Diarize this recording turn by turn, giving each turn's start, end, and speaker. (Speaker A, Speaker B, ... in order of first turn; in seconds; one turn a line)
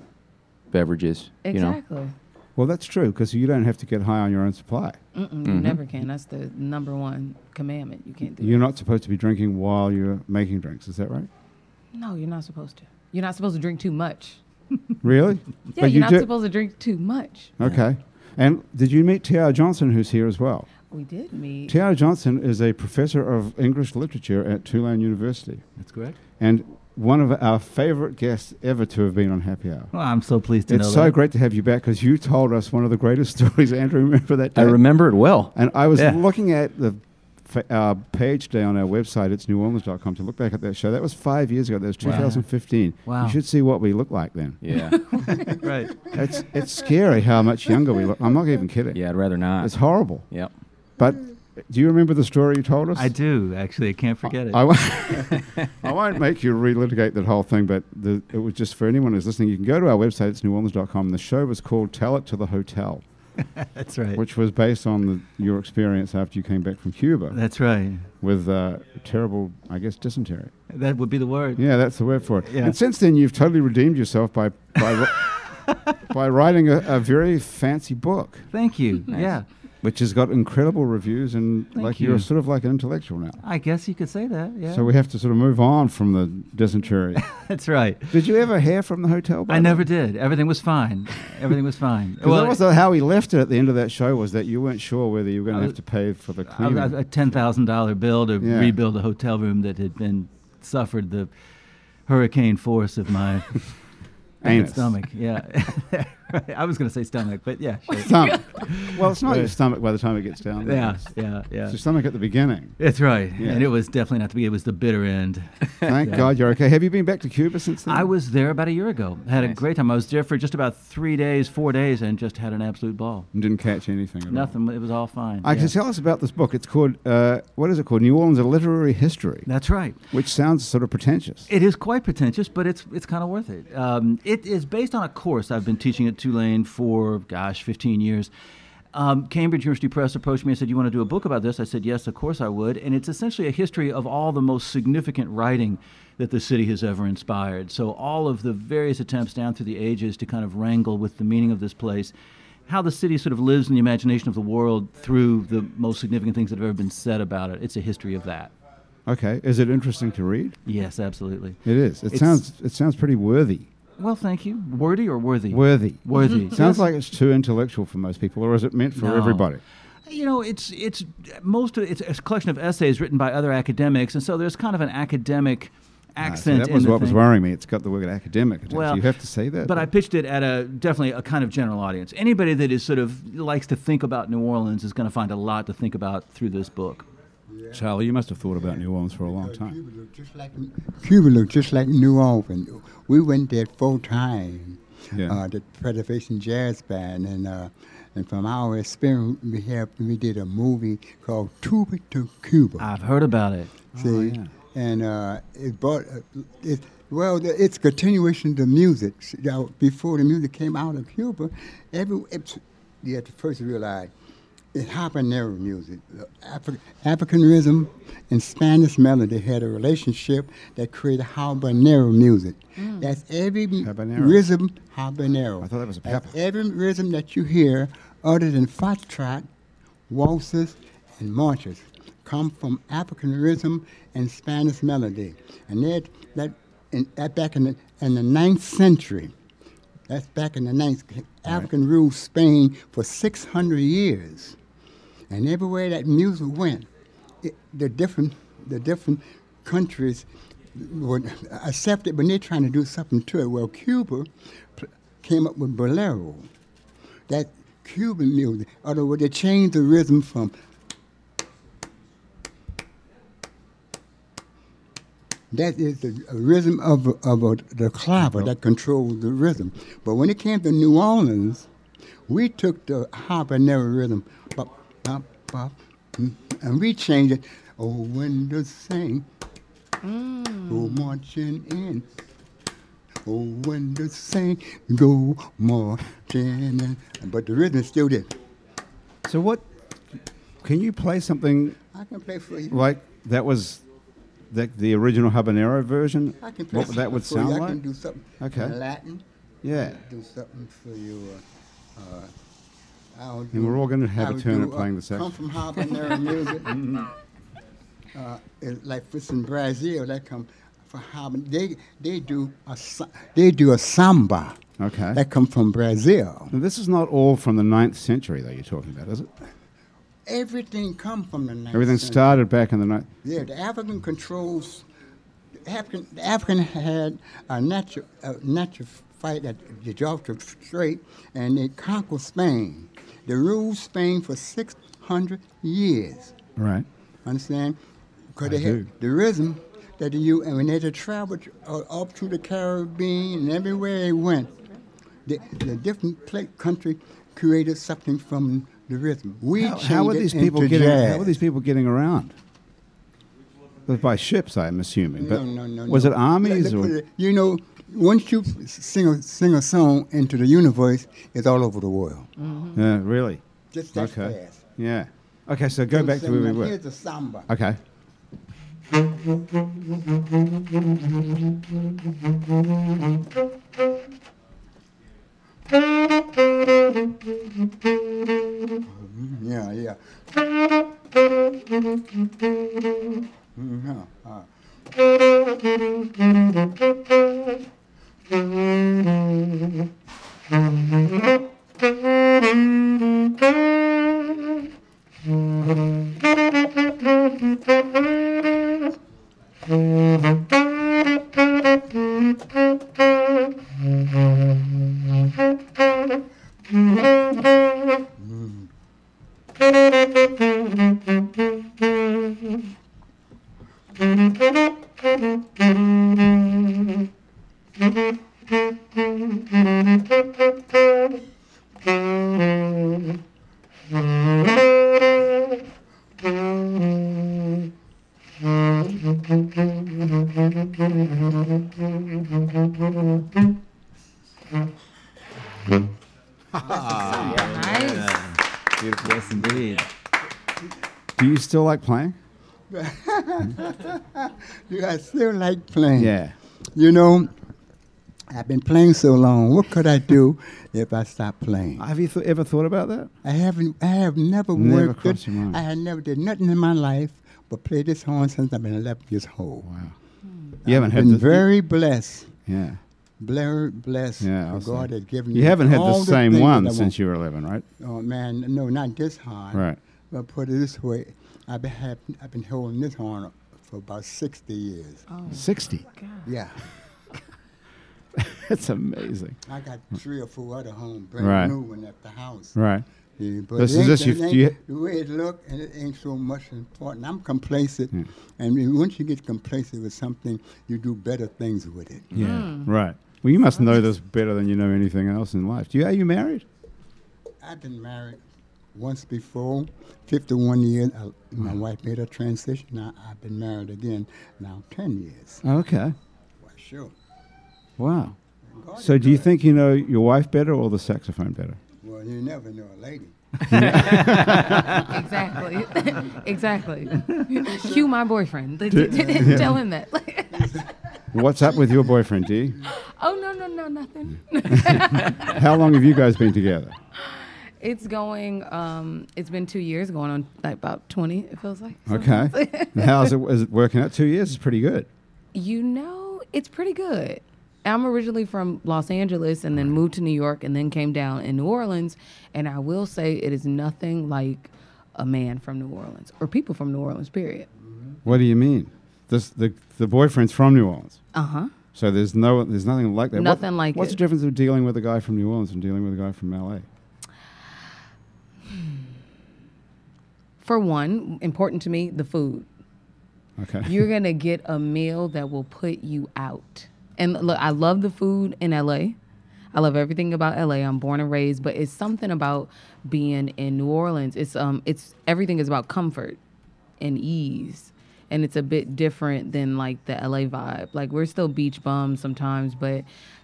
Speaker A: 0.7-1.8
Speaker B: 1.4-2.1
Speaker C: 2.5-5.0
Speaker B: 5.1-8.6
Speaker A: 5.4-5.8
Speaker C: 8.4-11.3
Speaker B: 11.9-14.4
Speaker C: 15.0-16.3
Speaker B: 15.7-17.5
Speaker C: 17.6-20.7
Speaker B: 20.9-21.8
Speaker C: 21.7-25.6
Speaker D: 25.8-26.2
Speaker C: 26.4-29.9
Speaker D: 29.9-31.1
Speaker C: 30.7-34.8
Speaker A: 34.5-36.1
Speaker C: 35.5-44.6
Speaker D: 42.0-42.4
Speaker D: 43.0-43.4
Speaker A: 44.6-45.0
Speaker B: 44.9-45.5
Speaker D: 45.6-46.1
Speaker C: 46.1-49.0
Speaker A: 48.9-50.5
Speaker C: 49.6-50.3
Speaker C: 51.0-53.1
Speaker D: 52.9-55.4
Speaker C: 54.2-63.0
Speaker D: 63.5-64.2
Speaker C: 64.1-67.4
Speaker D: 67.3-68.0
Speaker C: 68.2-70.5
Speaker D: 70.7-71.6
Speaker C: 71.5-75.4
Speaker D: 72.4-72.8
Speaker D: 74.8-76.0
Speaker C: 75.9-78.5
Speaker D: 78.5-79.4
Speaker A: 79.1-79.4
Speaker C: 79.8-83.4
Speaker D: 81.7-82.3
Speaker D: 83.4-84.9
Speaker C: 84.7-87.3
Speaker D: 87.3-88.2
Speaker C: 88.1-89.9
Speaker D: 89.5-92.6
Speaker C: 92.2-97.0
Speaker D: 95.5-95.8
Speaker D: 96.5-101.3
Speaker C: 98.4-98.8
Speaker D: 102.1-103.8
Speaker D: 104.4-109.5
Speaker C: 104.4-105.0
Speaker C: 108.0-111.1
Speaker D: 110.6-111.8
Speaker C: 111.7-112.8
Speaker D: 112.8-116.3
Speaker C: 113.3-113.7
Speaker C: 115.8-118.1
Speaker D: 117.8-123.3
Speaker C: 123.3-124.6
Speaker D: 124.3-125.7
Speaker C: 125.4-129.5
Speaker D: 129.4-129.9
Speaker C: 130.1-131.5
Speaker D: 131.5-138.3
Speaker D: 138.9-152.1
Speaker D: 152.7-158.5
Speaker C: 159.1-160.6
Speaker D: 160.7-162.4
Speaker C: 161.6-163.7
Speaker D: 164.0-166.8
Speaker C: 165.5-169.6
Speaker D: 168.9-169.5
Speaker D: 170.1-177.2
Speaker C: 176.2-179.9
Speaker D: 178.7-179.0
Speaker D: 179.6-187.1
Speaker E: 187.5-187.8
Speaker C: 187.7-189.8
Speaker E: 188.5-202.9
Speaker C: 195.1-195.4
Speaker D: 202.8-203.9
Speaker C: 203.9-204.5
Speaker E: 203.9-214.1
Speaker E: 214.7-229.5
Speaker C: 223.8-224.4
Speaker C: 225.6-226.3
Speaker E: 230.1-239.3
Speaker E: 240.1-244.6
Speaker E: 245.3-246.9
Speaker E: 247.4-256.5
Speaker E: 257.3-260.5
Speaker E: 265.5-271.7
Speaker E: 272.3-279.3
Speaker B: 280.0-281.1
Speaker E: 280.7-282.1
Speaker E: 283.2-288.3
Speaker C: 289.2-289.7
Speaker C: 290.6-291.8
Speaker E: 291.9-292.9
Speaker C: 292.7-293.8
Speaker C: 294.5-297.8
Speaker E: 296.4-301.4
Speaker C: 298.4-298.8
Speaker C: 299.6-300.0
Speaker E: 301.9-302.3
Speaker E: 303.1-307.0
Speaker C: 303.5-305.4
Speaker E: 308.1-314.6
Speaker C: 314.8-315.2
Speaker E: 315.1-316.5
Speaker C: 316.5-319.3
Speaker E: 320.2-322.4
Speaker C: 321.7-323.1
Speaker E: 323.2-324.9
Speaker E: 325.6-336.3
Speaker C: 336.6-336.9
Speaker E: 337.2-337.8
Speaker E: 338.3-344.6
Speaker C: 338.4-338.9
Speaker E: 345.2-351.4
Speaker C: 349.5-352.3
Speaker C: 353.9-356.9
Speaker E: 355.2-362.3
Speaker B: 362.4-362.8
Speaker C: 362.7-363.4
Speaker E: 363.7-364.6
Speaker C: 363.9-366.8
Speaker E: 365.9-367.5
Speaker C: 367.5-367.8
Speaker E: 378.8-380.2
Speaker E: 383.5-384.5
Speaker E: 408.2-408.7
Speaker C: 436.5-437.5
Speaker E: 436.6-437.5
Speaker D: 436.9-438.4
Speaker B: 437.2-438.2
Speaker C: 438.8-439.6
Speaker D: 439.0-439.9
Speaker C: 441.2-442.2
Speaker E: 442.7-446.1
Speaker C: 445.9-446.3
Speaker E: 446.7-447.3
Speaker E: 448.3-451.9
Speaker C: 451.8-453.1
Speaker E: 453.2-459.7
Speaker C: 454.5-455.6
Speaker C: 459.6-459.9
Speaker C: 460.6-461.5
Speaker E: 460.6-462.4
Speaker C: 462.5-462.8
Speaker E: 463.2-466.9
Speaker C: 464.2-467.6
Speaker E: 467.8-475.1
Speaker C: 469.5-469.8
Speaker B: 475.1-476.3
Speaker C: 475.3-475.8
Speaker E: 476.2-476.7
Speaker C: 478.1-479.4
Speaker E: 479.4-482.6
Speaker C: 481.2-481.5
Speaker C: 482.6-482.8
Speaker E: 483.2-492.1
Speaker C: 483.6-484.6
Speaker C: 492.1-496.4
Speaker B: 492.1-492.7
Speaker E: 497.4-498.2
Speaker E: 498.7-505.4
Speaker C: 505.4-505.9
Speaker E: 506.4-506.9
Speaker C: 507.8-508.1
Speaker E: 508.4-509.3
Speaker C: 508.8-511.6
Speaker E: 511.8-514.8
Speaker C: 513.5-514.9
Speaker B: 514.6-520.5
Speaker E: 517.3-517.8
Speaker C: 518.7-519.6
Speaker E: 518.8-519.5
Speaker E: 520.3-521.2
Speaker C: 521.1-522.6
Speaker B: 522.6-525.4
Speaker C: 524.5-526.8
Speaker B: 527.0-533.1
Speaker C: 531.9-534.9
Speaker B: 535.3-547.5
Speaker E: 547.6-548.0
Speaker C: 548.0-551.0
Speaker B: 551.1-551.5
Speaker C: 551.7-556.7
Speaker B: 553.1-554.0
Speaker B: 560.4-562.5
Speaker C: 563.4-563.8
Speaker B: 563.6-569.0
Speaker B: 569.5-576.2
Speaker B: 576.8-582.9